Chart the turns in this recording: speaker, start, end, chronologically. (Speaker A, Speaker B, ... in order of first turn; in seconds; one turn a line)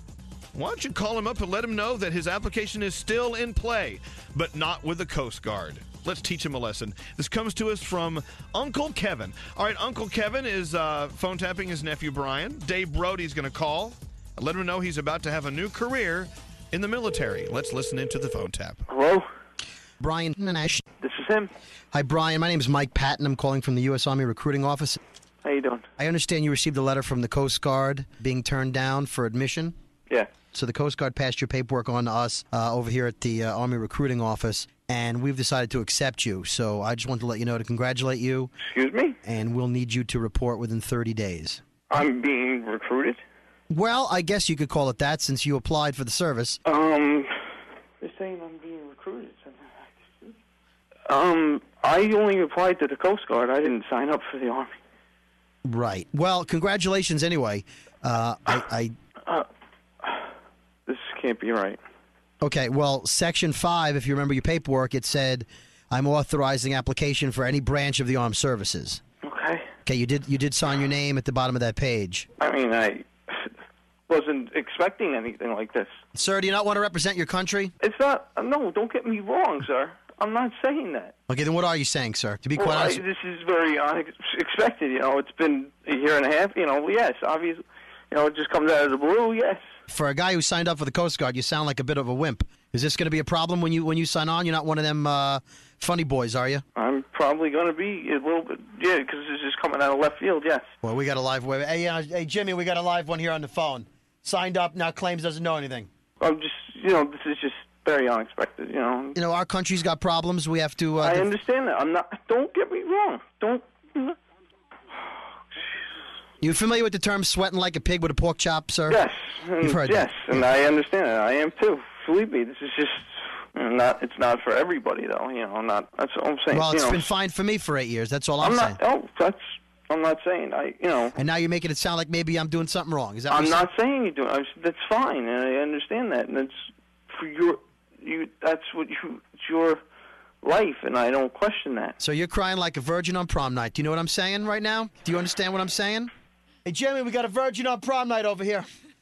Speaker A: 0.6-18.8
Speaker B: 18.9-19.3
Speaker C: 20.0-20.8
Speaker B: 21.0-21.5
Speaker C: 21.9-25.0
Speaker B: 25.4-25.9
Speaker C: 26.0-29.7
Speaker B: 30.1-30.4
Speaker C: 30.5-38.5
Speaker B: 38.6-39.2
Speaker C: 39.2-41.6
Speaker B: 41.9-43.2
Speaker C: 43.7-46.6
Speaker B: 46.6-47.3
Speaker B: 48.0-50.4
Speaker B: 51.1-54.8
Speaker C: 55.6-58.9
Speaker B: 60.9-61.8
Speaker C: 62.4-69.0
Speaker B: 69.2-69.7
Speaker C: 69.8-72.3
Speaker B: 72.4-73.5
Speaker B: 74.1-76.0
Speaker C: 76.2-77.7
Speaker B: 77.8-81.1
Speaker C: 81.3-83.0
Speaker B: 82.6-89.7
Speaker C: 89.9-96.6
Speaker B: 96.8-100.7
Speaker C: 100.8-105.9
Speaker B: 106.2-109.2
Speaker C: 109.2-111.3
Speaker B: 111.0-114.2
Speaker C: 116.4-119.0
Speaker B: 118.9-127.1
Speaker C: 119.6-120.4
Speaker C: 126.5-128.8
Speaker B: 128.4-131.2
Speaker C: 131.2-133.7
Speaker B: 133.3-139.8
Speaker B: 140.4-142.0
Speaker C: 142.0-146.1
Speaker C: 146.7-148.7